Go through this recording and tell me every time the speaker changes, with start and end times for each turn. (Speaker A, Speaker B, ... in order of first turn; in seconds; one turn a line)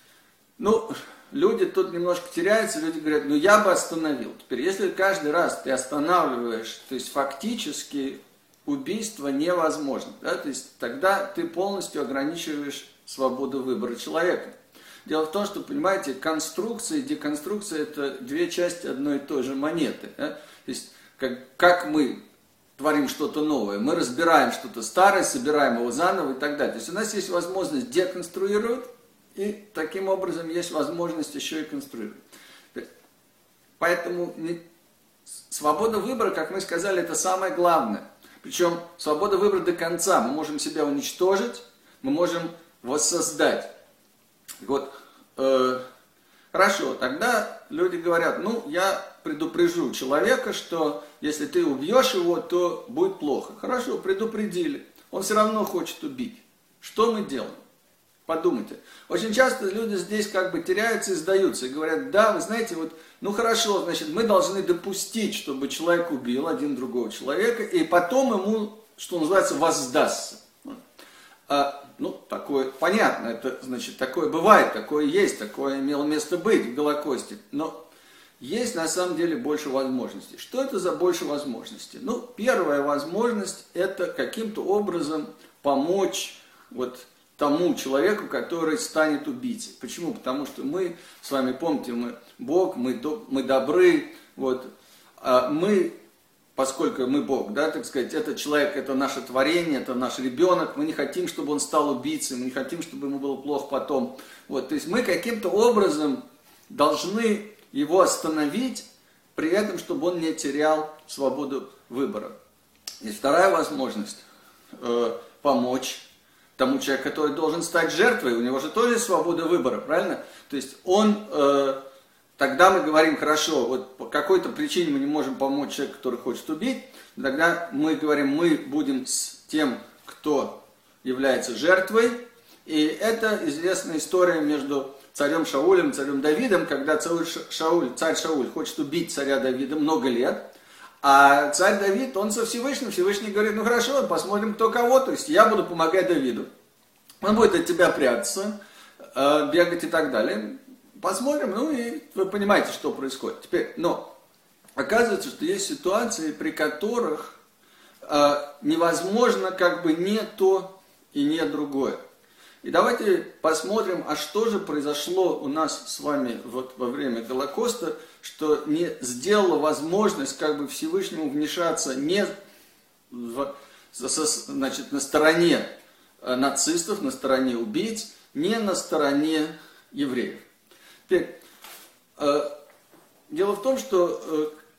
Speaker A: 0.6-14.5
Speaker A: 15.1-22.2
Speaker A: 22.8-32.2
Speaker A: 33.8-34.6
Speaker A: 35.5-43.7
Speaker A: 44.6-45.8
Speaker A: 46.5-57.6
Speaker A: 58.3-70.8
Speaker A: 71.5-77.7
Speaker A: 78.4-95.9
Speaker A: 96.6-112.3
Speaker A: 113.0-114.2
Speaker A: 114.8-116.0
Speaker A: 116.6-121.8
Speaker A: 122.4-140.4
Speaker A: 141.0-146.5
Speaker A: 147.2-148.6
Speaker A: 149.1-154.1
Speaker A: 154.8-157.4
Speaker A: 158.0-162.0
Speaker A: 162.6-172.3
Speaker A: 173.1-175.7
Speaker A: 176.2-180.4
Speaker A: 181.1-181.4
Speaker A: 182.2-182.5
Speaker A: 183.3-184.5